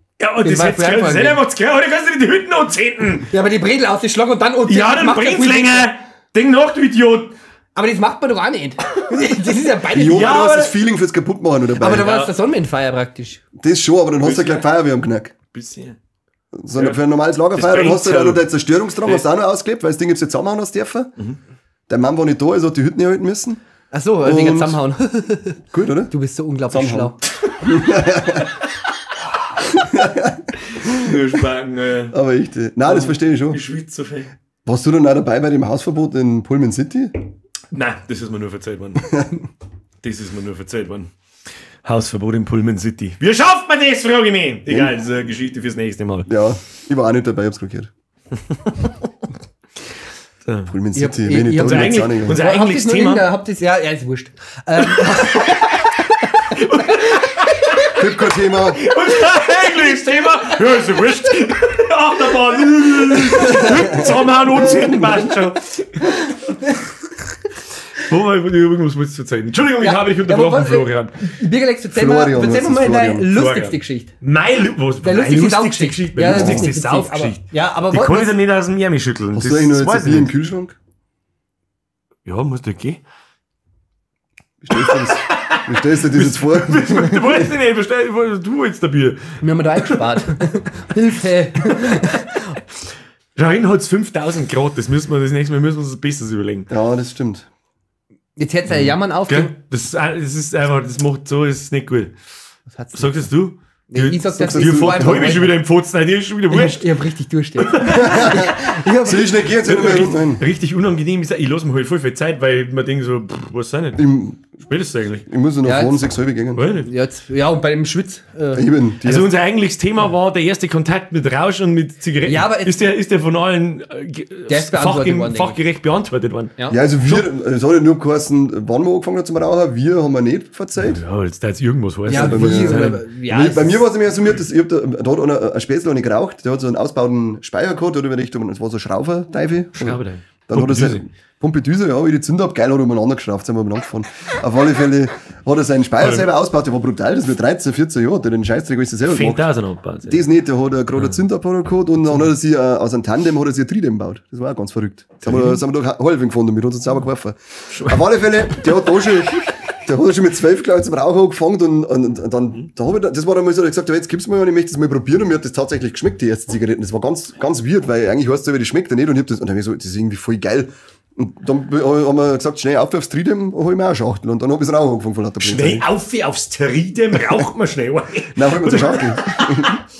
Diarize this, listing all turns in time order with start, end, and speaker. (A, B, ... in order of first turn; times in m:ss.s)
0:00.2-0:03.3 A
0:00.4-0:01.4 B
0:03.3-0:05.9 B
0:04.7-0:07.3 A
0:07.7-0:10.4 B
0:09.9-0:12.1 C
0:10.0-0:10.7 A
0:11.8-0:13.4 B
0:11.9-0:12.3 A
0:13.6-0:15.3 C
0:14.2-0:14.7 A
0:15.5-0:16.0 A
0:16.5-0:21.1 C
0:17.5-0:18.5 A
0:19.0-0:19.2 A
0:21.9-0:23.6 C
0:23.9-0:27.2 B
0:24.2-0:24.8 C
0:25.7-0:26.1 C
0:26.7-0:28.5 C
0:29.7-0:31.1 C
0:30.7-0:32.2 A
0:32.1-0:33.6 C
0:32.9-0:34.3 A
0:34.6-0:37.1 C
0:37.7-0:39.1 A
0:40.0-0:41.1 A
0:41.8-0:46.3 A
0:46.3-0:47.9 C
0:48.5-0:48.9 A
0:50.4-0:50.7 A
0:50.7-0:52.4 C
0:50.9-0:55.6 B
0:51.6-0:53.2 A
0:54.9-0:55.9 A
0:56.5-0:57.9 A
0:56.9-0:57.2 B
0:57.9-0:58.8 C
0:58.8-1:06.6 A
1:03.7-1:04.0 C
1:08.0-1:11.2 A
1:09.8-1:14.1 B
1:11.9-1:13.3 C
1:13.3-1:20.3 A
1:15.0-1:18.3 B
1:16.2-1:16.7 C
1:19.3-1:20.8 C
1:22.2-1:23.0 A
1:24.6-1:27.3 C
1:24.7-1:30.0 A
1:29.4-1:32.6 B
1:33.4-1:36.7 A
1:36.7-1:37.5 C
1:38.4-1:39.5 B
1:39.3-1:42.1 A
1:42.7-1:43.2 B
1:42.9-1:46.8 A
1:43.9-1:45.6 B
1:44.4-1:45.4 C
1:46.5-1:49.3 B
1:47.6-1:48.4 A
1:47.9-1:50.4 C
1:49.6-1:54.0 A
1:54.0-1:54.4 C
1:54.6-1:55.2 A
1:55.3-1:56.6 C
1:55.6-1:56.0 B
1:56.5-1:56.9 A
1:56.8-1:58.6 B
1:58.5-1:59.3 C
1:59.0-2:07.2 A
2:02.2-2:02.8 B
2:04.5-2:05.6 B
2:06.7-2:11.0 C
2:10.8-2:13.0 A
2:12.1-2:13.8 B
2:12.1-2:29.5 C
2:19.8-2:21.0 A
2:26.0-2:26.3 A
2:29.0-2:30.3 A
2:30.1-2:55.8 C
2:35.2-2:35.6 A
2:37.7-2:38.7 A
2:55.4-2:59.8 A
2:58.4-2:59.8 C